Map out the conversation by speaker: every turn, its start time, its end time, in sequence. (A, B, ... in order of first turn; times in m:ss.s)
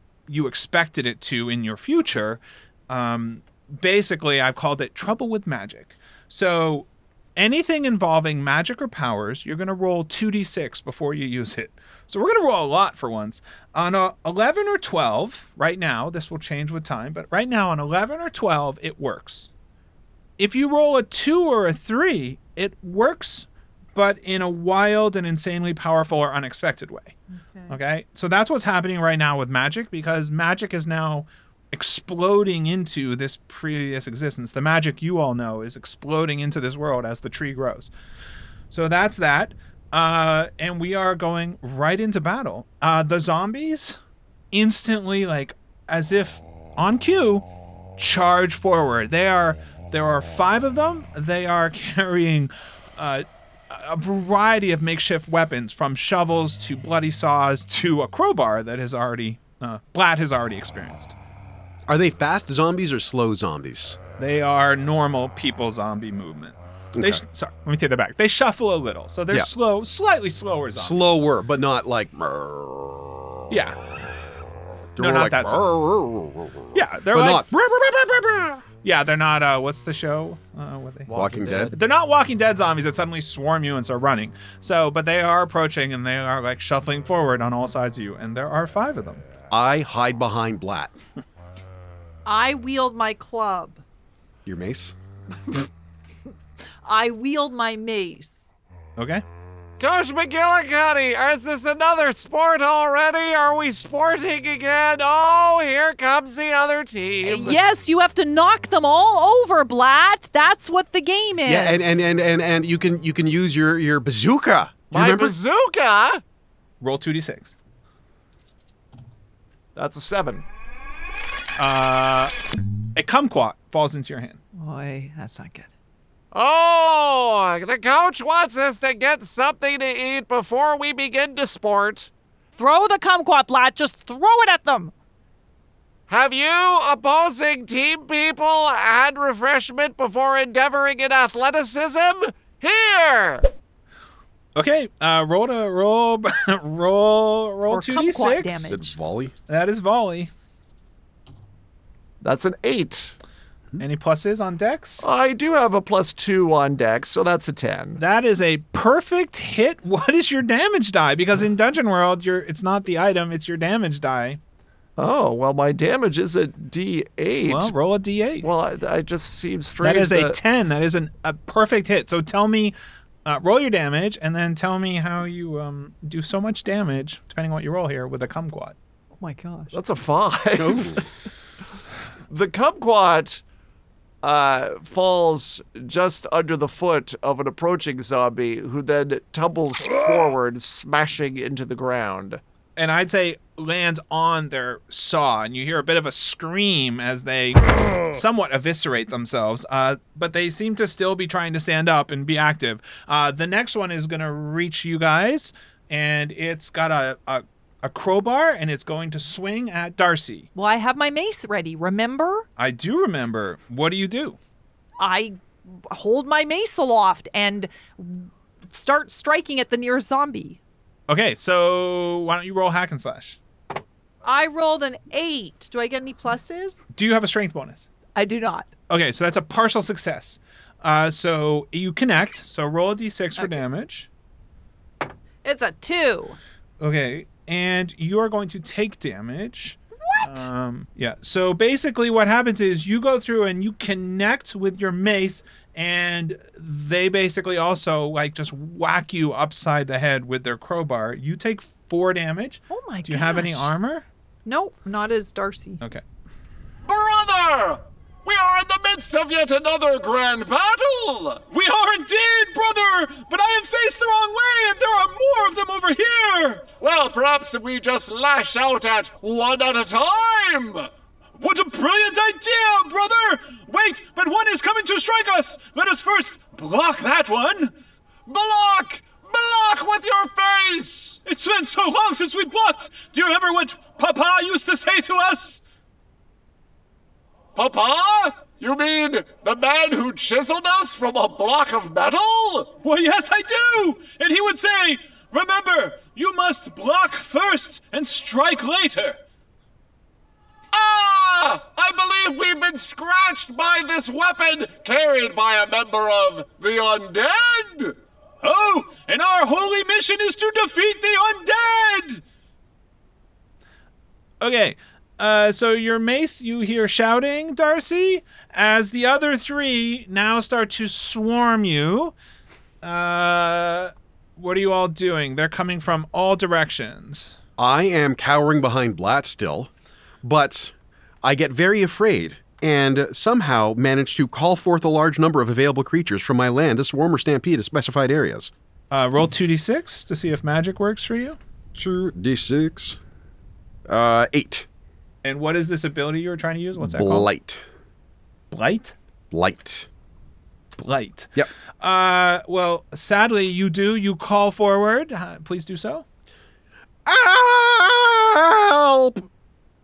0:00.3-0:19.5 A
0:20.4-0:27.1 A
0:27.3-0:27.8 B
0:27.7-0:37.9 A
0:38.7-0:44.0 A
0:44.5-1:01.1 A
1:01.9-1:04.0 C
1:04.2-1:11.2 A
1:06.9-1:07.2 C
1:10.7-1:13.4 C
1:13.5-1:13.8 A
1:15.0-1:18.6 C
1:15.0-1:15.7 A
1:16.7-1:17.4 A
1:18.8-1:29.2 A
1:21.1-1:21.7 D
1:21.1-1:21.7 C
1:29.5-1:30.9 C
1:32.2-1:33.8 B
1:34.4-1:35.0 C
1:36.8-1:38.5 B
1:39.0-1:39.2 A
1:39.8-1:47.6 D
1:47.2-1:51.8 B
1:51.4-1:55.4 C
1:54.9-1:56.2 D
1:56.8-1:57.5 A
1:59.7-2:00.4 D
2:01.6-2:02.3 A
2:02.9-2:04.4 A
2:04.5-2:05.7 B
2:06.3-2:12.1 D
2:12.6-2:14.9 B
2:16.1-2:23.4 D
2:24.5-2:28.8 A
2:27.7-2:29.0 B
2:28.7-2:29.3 C
2:29.5-2:30.3 A
2:32.2-2:33.1 D
2:33.8-2:35.0 A
2:35.0-2:38.0 D
2:38.0-2:44.4 A
2:45.0-2:47.7 D
2:47.4-2:48.5 A
2:48.4-2:50.4 D
2:49.8-2:58.8 A
2:59.2-2:59.8 B
2:59.7-3:01.1 D
3:00.6-3:01.0 C
3:02.3-3:03.4 D
3:04.2-3:12.4 D
3:12.8-3:30.5 A
3:30.5-3:32.4 B
3:32.6-3:34.4 A
3:35.0-3:40.6 B
3:41.1-3:43.4 A
3:44.2-3:46.8 B
3:46.9-3:47.9 A
3:48.1-3:48.7 B
3:48.9-3:54.1 A
3:53.4-3:53.6 B
3:55.4-3:56.4 B
3:56.8-4:14.1 A
4:00.0-4:00.5 B
4:12.7-4:13.7 B
4:14.4-4:15.8 B
4:16.8-4:21.4 D
4:21.5-4:26.6 A
4:26.8-4:30.9 D
4:31.4-4:37.7 A
4:38.3-4:41.2 D
4:41.2-4:45.6 A
4:47.5-4:52.7 D
4:52.8-4:59.2 A
5:00.7-5:07.9 D
5:08.4-5:12.2 A
5:14.4-5:22.1 A
5:22.8-5:27.4 A
5:27.6-5:29.7 C
5:30.2-5:38.5 C
5:38.9-5:41.4 A
5:41.7-5:43.0 C
5:43.9-5:44.6 C
5:45.2-5:47.3 A
5:46.8-5:47.6 C
5:48.5-5:48.9 A
5:49.3-5:49.9 C
5:50.8-5:56.0 A
5:57.0-5:59.3 C